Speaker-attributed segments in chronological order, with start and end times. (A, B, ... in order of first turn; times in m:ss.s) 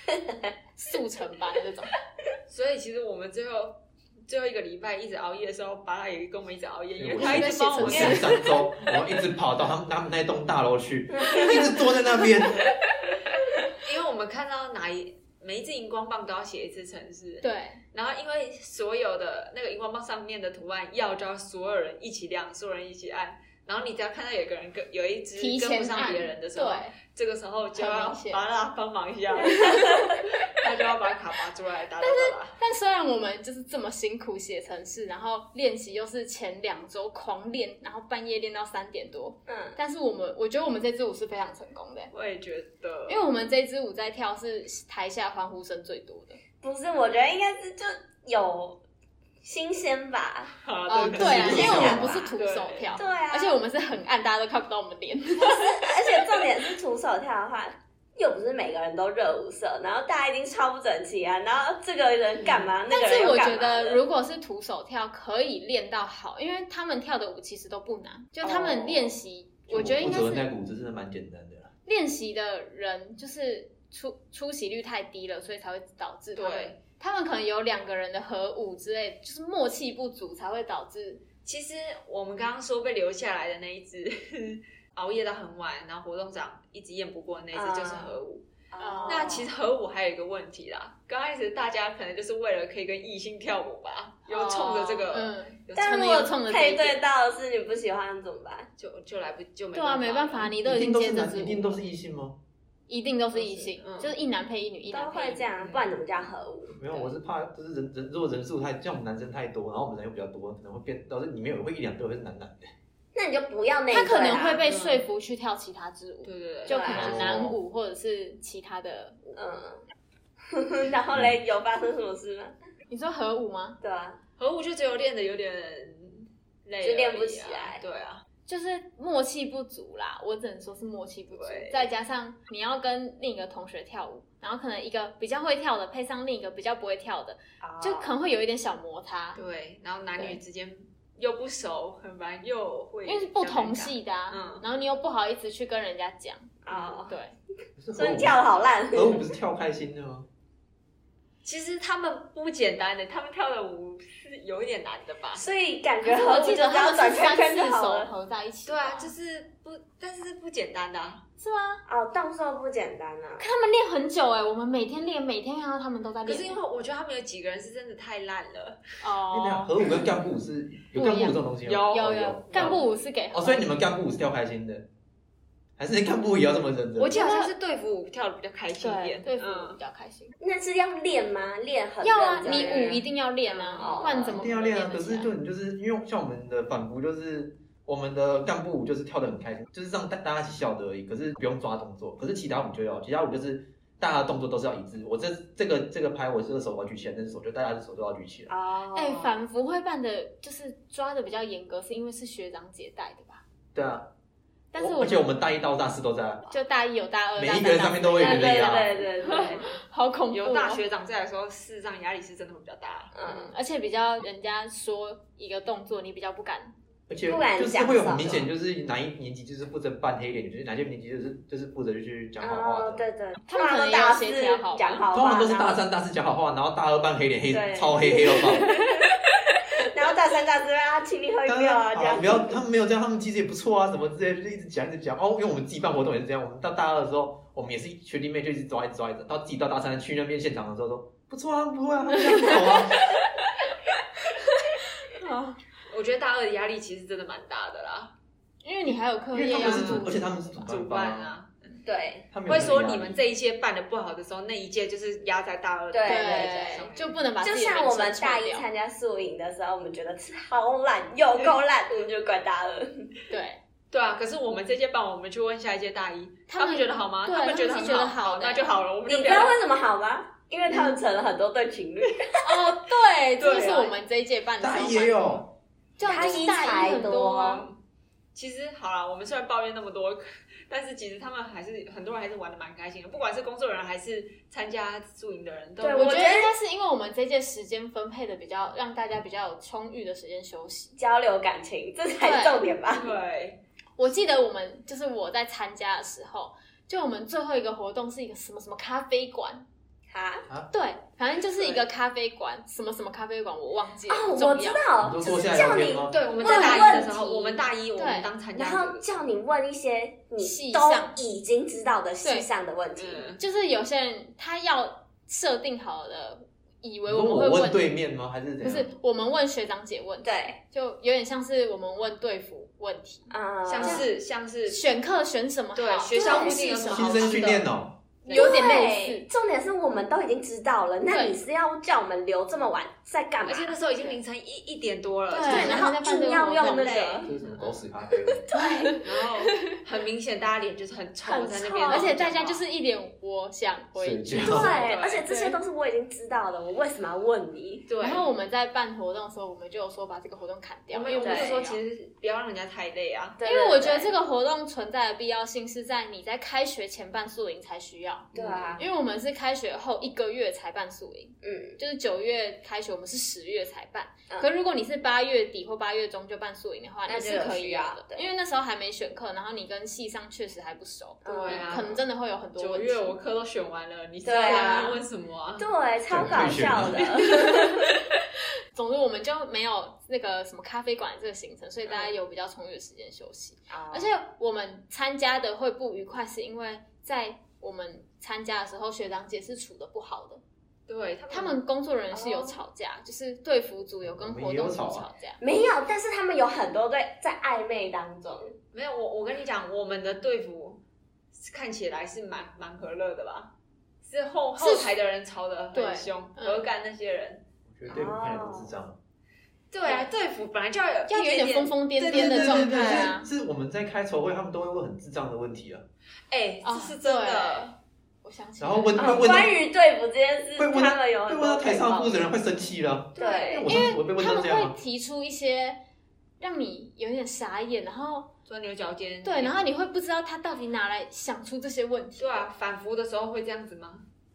0:00.8-0:01.9 A
0:02.5-0:08.4 B
0:07.0-0:12.6 C
0:07.2-0:08.5 A
0:07.9-0:08.2 D
0:11.2-0:11.5 D
0:13.8-0:32.5 B
0:17.4-0:17.8 A
0:25.4-0:26.9 A
0:27.8-0:28.4 A
0:32.0-0:42.1 A
0:39.5-0:39.8 D
0:42.1-0:43.2 B
0:43.1-0:46.4 A
0:46.6-0:48.8 D
0:49.4-0:50.5 D
0:50.6-0:53.0 B
0:50.9-0:55.8 A
0:51.1-0:52.3 C
0:51.4-0:52.3 D
0:53.0-0:53.6 D
0:55.4-1:04.0 D
1:02.4-1:02.7 B
1:02.9-1:10.5 A
1:08.4-1:09.1 D
1:09.7-1:11.7 C
1:11.8-1:21.2 A
1:16.4-1:16.8 B
1:21.4-1:28.4 B
1:27.5-1:28.2 D
1:28.7-1:29.5 D
1:28.8-1:29.4 A
1:29.0-1:36.1 B
1:34.3-1:37.0 A
1:35.7-1:38.7 D
1:38.8-1:40.5 B
1:39.7-1:41.8 A
1:40.6-1:42.4 C
1:42.9-1:45.4 A
1:43.3-1:44.1 B
1:44.9-1:46.7 D
1:45.6-1:45.9 B
1:46.7-1:52.7 C
1:53.1-1:54.6 D
1:53.9-1:59.4 A
1:54.6-1:55.0 B
1:56.2-1:57.0 B
1:56.7-1:57.2 D
1:56.9-1:57.6 C
1:59.3-1:59.8 D
2:00.5-2:02.5 D
2:01.1-2:01.4 C
2:02.9-2:03.8 A
2:03.8-2:04.2 D
2:04.4-2:08.2 B
2:06.8-2:07.8 D
2:08.4-2:19.4 A
2:11.3-2:11.9 B
2:17.6-2:18.1 D
2:19.3-2:24.6 B
2:23.0-2:27.3 A
2:26.6-2:27.2 D
2:27.8-2:28.4 C
2:28.0-2:29.2 D
2:28.9-2:30.3 C
2:31.4-2:35.4 B
2:35.3-2:38.1 D
2:36.0-2:39.1 A
2:38.6-2:41.2 B
2:41.4-2:41.8 A
2:41.9-2:43.4 D
2:43.4-2:46.6 A
2:46.2-2:48.8 B
2:49.0-2:49.9 A
2:49.3-2:52.8 C
2:50.9-2:53.7 A
2:51.6-2:52.7 B
2:53.3-2:54.8 C
2:55.8-2:57.2 C
2:57.0-2:59.8 B
2:57.1-2:57.5 A
2:58.8-3:00.3 A
3:00.4-3:03.0 D
3:02.0-3:05.3 A
3:02.4-3:04.2 B
3:03.8-3:04.4 D
3:04.3-3:18.5 C
3:18.5-3:19.4 D
3:18.9-3:23.4 A
3:23.7-3:24.1 C
3:24.7-3:25.3 A
3:24.8-3:26.5 C
3:26.5-3:28.7 A
3:27.4-3:29.1 C
3:28.2-3:29.6 D
3:29.2-3:29.8 B
3:29.2-3:30.8 A
3:30.3-3:33.1 B
3:33.1-3:33.5 D
3:33.2-3:36.7 A
3:37.1-3:43.0 C
3:37.2-3:38.5 D
3:42.4-3:45.8 D
3:43.5-3:45.0 A
3:45.1-3:48.8 C
3:47.5-3:49.1 D
3:49.8-3:52.6 D
3:51.4-4:03.2 C
4:02.3-4:02.8 A
4:05.0-4:05.6 A
4:05.9-4:08.1 B
4:08.6-4:10.7 A
4:09.3-4:11.3 C
4:09.5-4:11.8 B
4:11.8-4:12.3 D
4:12.3-4:13.2 C
4:12.4-4:17.2 B
4:15.9-4:16.9 D
4:16.0-4:18.7 A
4:17.4-4:23.1 D
4:23.3-4:23.6 A
4:23.9-4:29.6 B
4:26.5-4:28.7 A
4:29.0-4:32.4 D
4:32.4-4:35.4 A
4:33.4-4:34.0 B
4:34.6-4:35.5 C
4:36.0-4:37.6 A
4:36.0-4:37.7 D
4:38.3-4:46.3 B
4:45.8-4:46.5 D
4:45.9-4:51.0 A
4:51.0-4:53.1 D
4:52.2-4:52.6 A
4:52.9-4:53.6 B
4:54.0-4:59.6 A
5:00.1-5:00.5 D
5:00.7-5:04.8 A
5:01.6-5:01.8 B
5:04.1-5:07.6 D
5:05.0-5:06.2 C
5:05.7-5:09.2 B
5:06.4-5:07.1 A
5:08.0-5:08.3 A
5:08.5-5:13.3 D
5:10.4-5:11.2 A
5:12.2-5:12.5 A
5:13.0-5:13.4 B
5:13.4-5:17.9 A
5:17.1-5:18.9 C
5:18.6-5:23.3 A
5:20.2-5:20.6 D
5:23.3-5:24.0 D
5:23.6-5:24.8 B
5:23.8-5:24.1 A
5:24.7-5:27.4 A
5:25.8-5:27.7 B
5:26.2-5:26.6 D
5:26.9-5:28.0 C
5:28.2-5:28.8 B
5:28.2-5:29.3 A
5:28.3-5:34.1 D
5:31.1-5:31.4 A
5:33.4-5:35.9 B
5:35.3-5:37.0 A
5:35.4-5:37.3 D
5:36.6-5:37.3 B
5:37.2-5:38.4 C
5:37.5-5:37.8 A
5:38.5-5:39.0 A
5:38.5-5:39.0 D
5:39.0-5:42.6 B
5:41.3-5:45.6 A
5:41.8-5:42.1 D
5:44.0-5:44.7 C
5:44.4-5:47.9 D
5:44.5-5:45.2 B
5:47.9-5:48.3 B
5:48.0-5:51.8 A
5:50.9-5:53.4 B
5:51.2-5:51.6 D
5:53.4-5:54.1 D
5:53.4-6:13.1 A
5:58.3-5:58.8 D
5:58.3-5:58.8 B
6:01.4-6:01.8 D
6:07.0-6:08.3 D
6:11.2-6:12.0 D
6:11.2-6:12.0 B
6:12.6-6:15.7 B
6:14.2-6:15.0 D
6:15.6-6:17.9 D
6:16.1-6:17.0 C
6:17.2-6:17.8 B
6:18.7-6:30.4 A
6:23.7-6:24.1 D
6:30.9-6:31.6 B
6:31.3-6:35.4 A
6:32.1-6:32.6 D
6:34.0-6:35.1 C
6:35.4-6:38.5 D
6:38.7-6:40.8 B
6:41.3-6:43.5 B
6:44.0-6:47.4 B
6:44.6-6:44.9 A
6:45.7-6:46.6 A
6:47.7-6:49.0 C
6:47.9-6:48.7 D
6:49.7-6:53.1 B
6:51.1-6:53.3 A
6:52.0-6:55.8 C
6:56.3-6:57.7 B
6:56.6-6:59.4 A
6:58.6-6:59.6 C
6:59.0-7:02.3 D
7:00.6-7:04.7 C
7:03.2-7:03.7 D
7:03.6-7:05.8 A
7:06.4-7:08.3 A
7:08.4-7:09.6 B
7:09.2-7:12.5 A
7:12.2-7:14.0 B